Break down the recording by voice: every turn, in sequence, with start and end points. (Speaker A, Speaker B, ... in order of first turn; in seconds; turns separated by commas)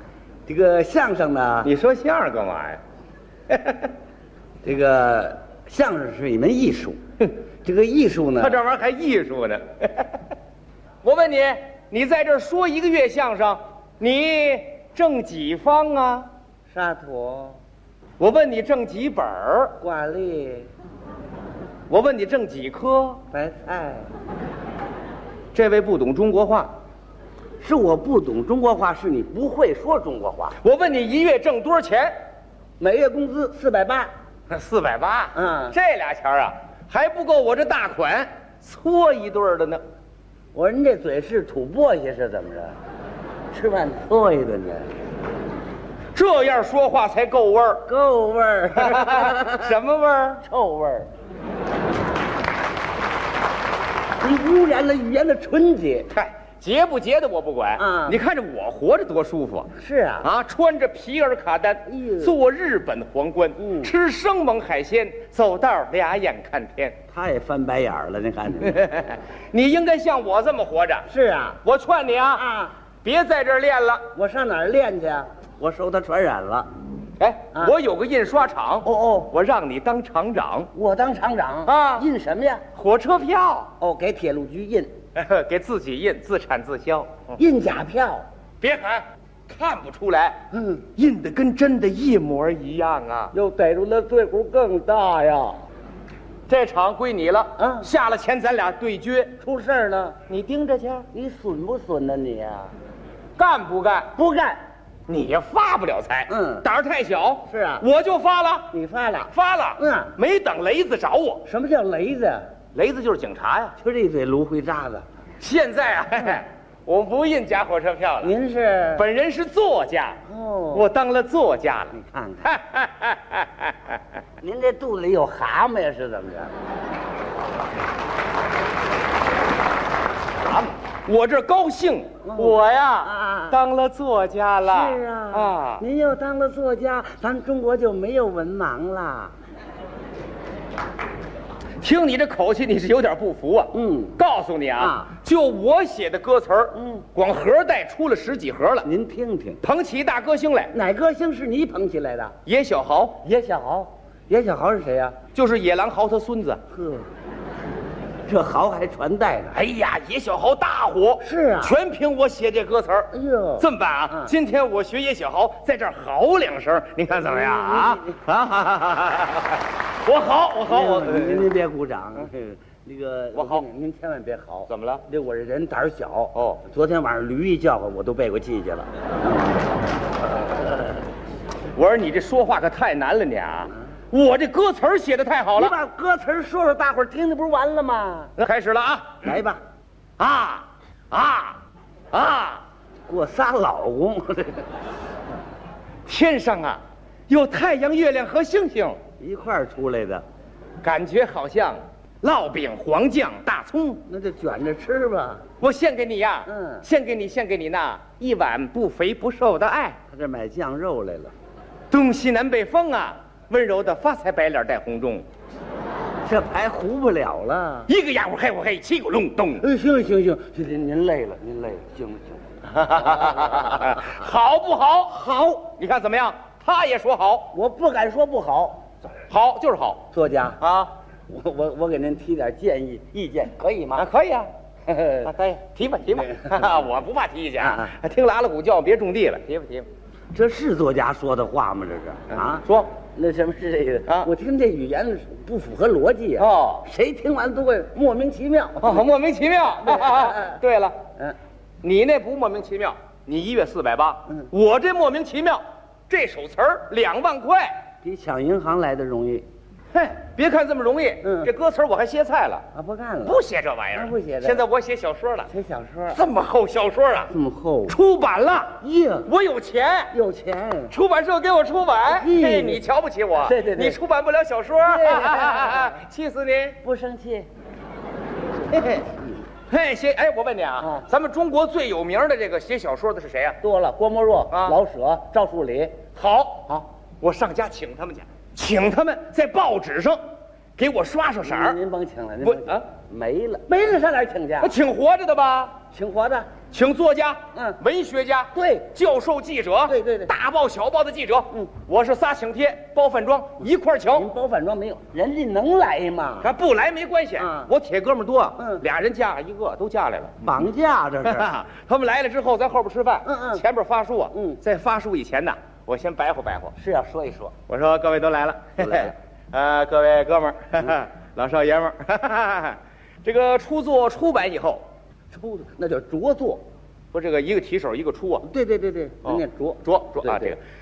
Speaker A: 0.5-1.7, Speaker B: 1.6-2.8, Speaker B: 3.5-3.9, Speaker A: 4.6-7.0, Speaker A: 7.6-8.6, Speaker B: 8.4-10.2, Speaker B: 11.0-16.3, Speaker A: 16.7-17.6, Speaker B: 18.2-19.8, Speaker A: 19.8-20.7, Speaker B: 21.9-23.2, Speaker A: 23.3-24.1, Speaker B: 25.5-26.7, Speaker A: 27.6-30.6, Speaker B: 30.6-32.2, Speaker A: 32.8-34.1, Speaker B: 34.5-39.8, Speaker A: 35.3-35.8, Speaker A: 40.5-42.8, Speaker A: 43.5-44.9, Speaker B: 46.1-47.9, Speaker A: 47.9-49.7, Speaker B: 48.8-50.4, Speaker A: 50.4-51.1, Speaker A: 54.2-56.1, Speaker B: 56.1-59.7, Speaker A: 57.8-58.2, Speaker A: 59.8-60.3, Speaker B: 60.2-67.0, Speaker A: 61.9-62.4, Speaker A: 63.6-63.9, Speaker A: 67.1-68.9, Speaker B: 68.7-71.1, Speaker A: 71.1-71.6, Speaker B: 71.6-72.4, Speaker A: 72.3-72.7, Speaker B: 73.0-74.1, Speaker A: 74.1-76.7, Speaker B: 77.2-80.7, Speaker A: 78.8-79.3, Speaker A: 80.7-82.6, Speaker B: 81.7-82.1, Speaker B: 82.7-83.7, Speaker A: 83.8-84.9, Speaker B: 85.2-87.4, Speaker A: 87.4-88.3, Speaker B: 88.6-90.4, Speaker A: 90.5-90.9, Speaker B: 91.0-93.3, Speaker A: 93.3-95.6, Speaker B: 96.5-99.4, Speaker A: 97.6-97.9, Speaker A: 99.4-100.2, Speaker B: 100.3-101.1, Speaker A: 101.1-102.7, Speaker B: 103.4-104.2, Speaker A: 104.2-104.6, Speaker B: 105.1-108.7, Speaker A: 106.3-106.7, Speaker A: 107.5-107.9, Speaker A: 108.7-110.1, Speaker B: 109.3-111.4, Speaker A: 111.5-112.5, Speaker B: 112.7-113.8, Speaker A: 113.8-115.1, Speaker B: 115.4-118.3, Speaker A: 118.2-119.1, Speaker B: 119.0-120.2, Speaker A: 120.3-120.9, Speaker B: 120.7-121.9, Speaker A: 121.9-122.5, Speaker B: 122.4-124.0, Speaker A: 124.4-126.5, Speaker B: 130.5-135.8, Speaker A: 132.2-133.6, Speaker A: 134.6-139.4, Speaker B: 141.8-148.9, Speaker A: 143.7-144.2, Speaker A: 144.8-145.1, Speaker A: 146.8-147.1, Speaker A: 148.8-149.6, Speaker B: 149.6-150.7, Speaker A: 150.7-152.4, Speaker B: 152.5-153.2, Speaker A: 153.2-155.2, Speaker B: 155.3-156.6, Speaker A: 156.7-157.1, Speaker A: 158.3-159.6, Speaker B: 159.5-171.5, Speaker A: 161.2-161.8, Speaker A: 163.1-164.3, Speaker A: 167.4-168.1, Speaker A: 170.7-179.6, Speaker B: 173.3-173.7, Speaker B: 174.7-175.0, Speaker B: 176.3-176.6, Speaker B: 181.8-185.8, Speaker A: 185.6-188.3, Speaker B: 188.4-189.3, Speaker A: 189.2-189.6, Speaker B: 190.2-191.6, Speaker B: 192.1-192.6, Speaker A: 193.1-194.7, Speaker B: 196.1-199.0, Speaker A: 199.2-200.2, Speaker B: 200.8-204.0, Speaker A: 204.1-205.4, Speaker B: 205.6-210.0, Speaker A: 206.5-206.9, Speaker A: 210.1-211.3, Speaker B: 211.9-215.3, Speaker A: 216.2-217.9, Speaker B: 217.9-219.7, Speaker A: 219.6-223.7, Speaker B: 222.8-227.5, Speaker A: 225.2-225.6, Speaker A: 227.5-228.8, Speaker B: 229.3-230.1, Speaker A: 230.1-230.6, Speaker B: 230.6-230.9, Speaker A: 231.3-234.1, Speaker B: 234.0-234.5, Speaker A: 234.9-235.3, Speaker B: 235.2-239.9, Speaker A: 237.6-237.9, Speaker A: 240.3-249.1, Speaker B: 242.3-242.9, Speaker B: 246.4-246.8, Speaker B: 248.8-251.0, Speaker A: 249.8-250.6, Speaker B: 251.8-257.7, Speaker A: 258.0-259.5, Speaker B: 259.9-262.7, Speaker A: 261.2-261.5, Speaker A: 262.7-263.4, Speaker B: 263.2-265.5, Speaker A: 263.9-264.6, Speaker A: 265.5-266.2, Speaker B: 266.1-267.3, Speaker A: 267.3-268.0, Speaker B: 267.9-270.1, Speaker A: 268.8-269.3, Speaker A: 270.1-270.9, Speaker B: 270.9-276.8, Speaker A: 272.1-272.8, Speaker A: 273.4-274.0, Speaker A: 274.8-275.9, Speaker A: 276.8-277.5, Speaker A: 278.8-279.4, Speaker B: 279.7-283.6, Speaker A: 280.8-281.1, Speaker A: 283.6-286.1, Speaker B: 284.5-284.8, Speaker B: 286.1-290.2, Speaker B: 290.8-291.8, Speaker A: 291.4-294.8, Speaker B: 292.4-292.8, Speaker B: 294.6-295.8, Speaker A: 295.9-296.5, Speaker B: 296.7-304.3, Speaker A: 297.6-297.8, Speaker A: 298.5-298.9, Speaker A: 299.9-300.3, Speaker A: 304.1-306.5, Speaker B: 306.4-310.5, Speaker A: 307.4-307.7, Speaker A: 308.6-308.8, Speaker A: 310.4-311.5, Speaker B: 311.2-316.7, Speaker A: 313.2-313.6, Speaker A: 314.3-314.6, Speaker A: 316.8-317.5, Speaker B: 317.7-324.8, Speaker A: 318.8-319.1, Speaker A: 325.3-326.6, Speaker B: 327.1-328.5, Speaker A: 328.4-330.6, Speaker B: 329.2-330.6